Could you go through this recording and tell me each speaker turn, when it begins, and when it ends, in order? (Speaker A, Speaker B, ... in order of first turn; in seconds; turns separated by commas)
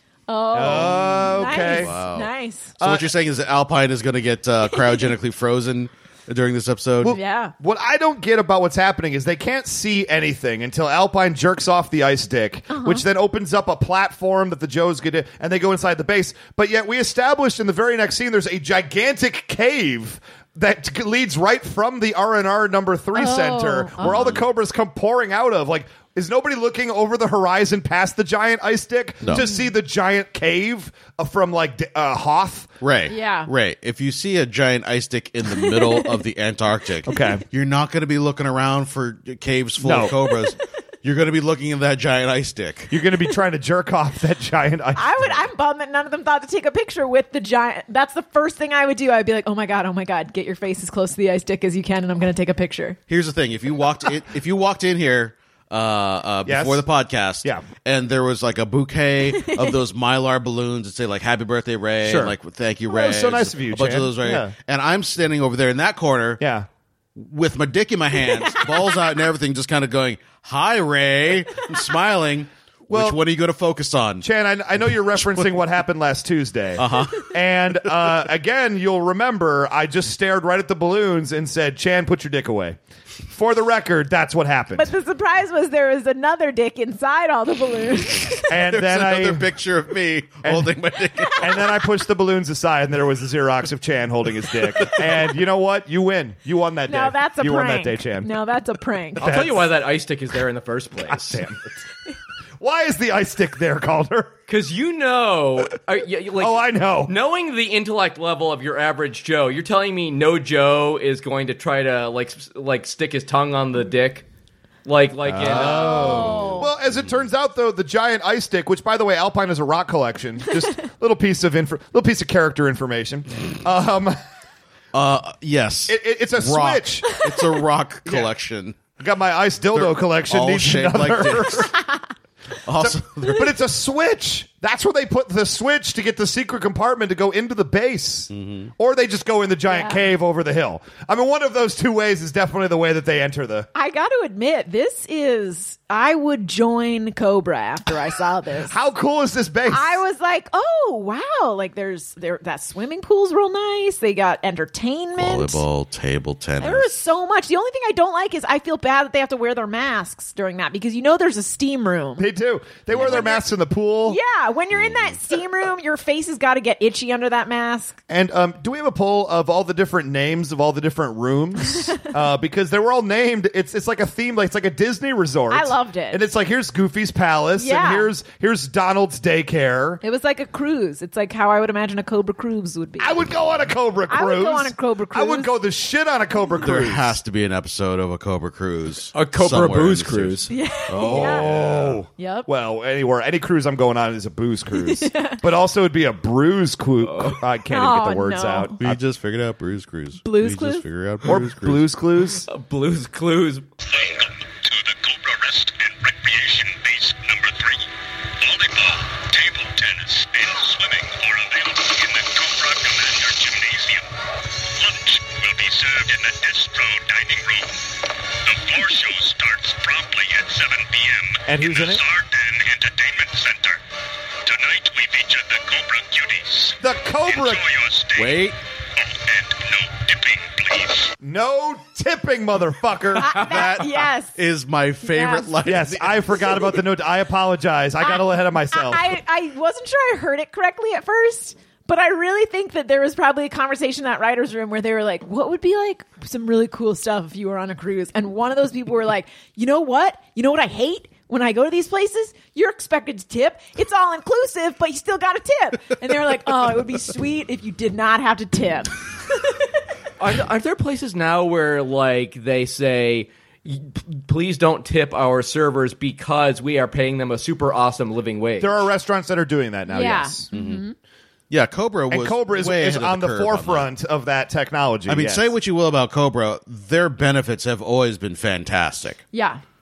Speaker A: 0.3-2.7, Speaker B: 0.5-1.9, Speaker C: 1.5-7.2, Speaker B: 2.8-3.1, Speaker B: 7.0-32.7, Speaker A: 7.0-7.5, Speaker A: 12.7-13.0, Speaker A: 23.1-24.4, Speaker C: 24.0-24.4, Speaker A: 29.3-29.6, Speaker C: 32.8-42.9, Speaker A: 33.1-33.5, Speaker A: 35.5-36.2, Speaker B: 37.1-37.4, Speaker B: 39.8-40.1, Speaker B: 42.9-45.4, Speaker A: 45.0-53.0, Speaker C: 53.1-66.4, Speaker B: 56.5-56.8, Speaker A: 59.3-59.8, Speaker B: 62.0-62.3, Speaker B: 62.9-64.5, Speaker B: 66.4-66.7, Speaker C: 67.2-74.2, Speaker A: 68.3-68.7, Speaker B: 72.9-73.2, Speaker B: 74.2-82.8, Speaker C: 74.8-75.5, Speaker C: 76.8-77.3, Speaker B: 83.3-84.9, Speaker A: 84.8-88.5, Speaker B: 88.5-89.5, Speaker C: 88.5-91.7, Speaker B: 90.4-90.7, Speaker B: 91.3-98.3, Speaker A: 96.9-99.3, Speaker B: 99.2-99.7, Speaker D: 99.2-101.4, Speaker B: 101.1-101.6, Speaker B: 102.6-104.3, Speaker D: 104.5-114.2, Speaker B: 106.4-107.1, Speaker D: 114.8-116.3, Speaker B: 115.3-124.2, Speaker C: 115.4-117.1, Speaker A: 115.6-116.7, Speaker C: 124.9-128.8, Speaker B: 125.9-127.2, Speaker B: 129.0-131.7, Speaker C: 129.7-131.7, Speaker C: 132.6-133.6, Speaker B: 132.8-143.7, Speaker C: 138.3-138.7, Speaker A: 139.7-140.0, Speaker A: 143.7-148.7, Speaker B: 148.7-150.0, Speaker A: 149.7-155.6, Speaker C: 155.2-156.9, Speaker A: 156.6-162.3, Speaker B: 162.2-164.2, Speaker C: 162.9-163.2, Speaker A: 162.9-163.4, Speaker A: 164.1-168.0, Speaker C: 164.7-165.2, Speaker B: 168.1-180.0, Speaker A: 175.5-176.2, Speaker A: 177.6-178.1, Speaker A: 180.0-183.2, Speaker B: 183.0-187.2, Speaker A: 184.1-185.5, Speaker C: 186.6-192.0, Speaker D: 189.1-190.5, Speaker A: 190.5-191.5, Speaker B: 190.9-199.0, Speaker A: 192.2-192.5, Speaker A: 194.8-195.4, Speaker D: 197.0-197.4, Speaker A: 197.7-198.7, Speaker C: 198.8-201.8, Speaker A: 200.2-200.8, Speaker B: 201.2-202.4, Speaker D: 202.5-203.7, Speaker E: 203.8-214.1, Speaker E: 214.7-223.8, Speaker B: 221.5-222.0, Speaker E: 224.4-228.4, Speaker B: 226.8-227.6, Speaker C: 228.1-228.6, Speaker E: 229.0-231.1, Speaker B: 231.2-233.5, Speaker A: 233.2-234.4, Speaker C: 233.3-236.6, Speaker A: 235.0-235.5, Speaker B: 235.6-239.2, Speaker A: 238.0-259.0, Speaker D: 260.2-268.9, Speaker B: 268.6-270.4, Speaker A: 269.9-270.9, Speaker C: 270.5-270.8, Speaker C: 271.5-273.9, Speaker B: 272.1-275.5, Speaker C: 275.1-279.2, Speaker A: 279.3-279.6